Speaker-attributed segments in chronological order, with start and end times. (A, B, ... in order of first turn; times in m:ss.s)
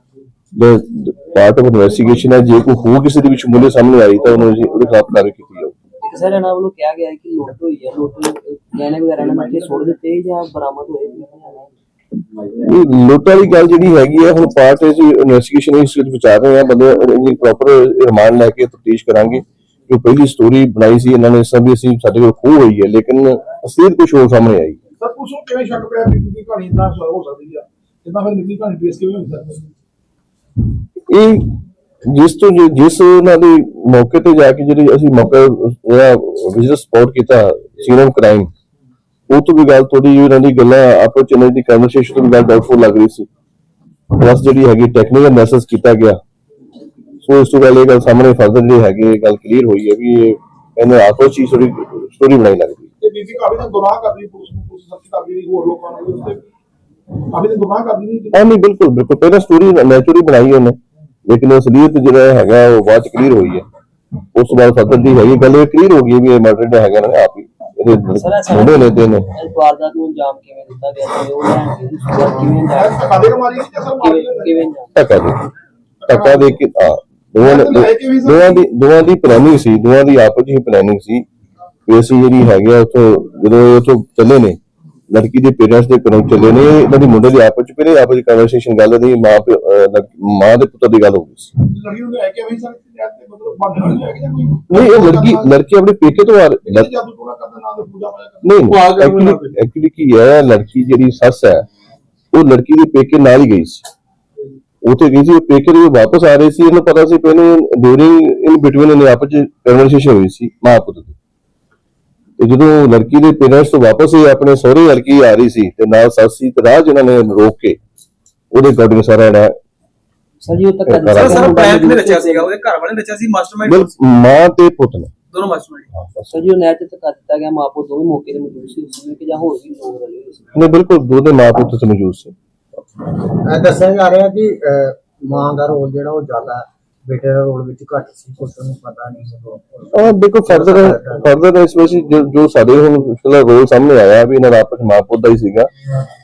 0:00.5-0:05.7 A
0:06.0-0:11.7 B
0:12.6-0:24.8 A
0:25.0-0:29.6 C
0:31.1-0:38.5 A
0:39.3-0:43.3 A
0:44.1-0:46.2 A
0:47.2-0:52.9 A
0:53.0-0:56.4 C
0:57.3-0:58.4 C
0:58.3-1:03.6 A
1:04.3-1:09.3 A
1:08.1-1:13.2 B
1:12.7-1:14.5 C
1:14.0-1:14.9 B
1:14.9-1:15.4 A
1:16.0-1:16.5 C
1:16.1-1:21.2 A
1:17.4-1:18.6 C
1:21.9-1:24.6 A
1:25.1-1:31.5 A
1:31.7-1:35.5 C
1:34.7-1:36.9 A
1:36.6-1:38.8 C
1:38.4-1:41.6 A
1:42.3-1:43.8 A
1:44.8-1:51.2 A
1:52.4-1:57.8 A
1:58.5-1:59.6 A
2:00.4-2:02.5 B
2:00.9-2:01.6 A
2:01.1-2:03.9 D
2:03.6-2:05.1 A
2:05.3-2:05.9 D
2:05.9-2:06.3 A
2:06.3-2:10.5 B
2:10.5-2:12.3 A
2:13.2-2:21.3 E
2:19.9-2:25.7 A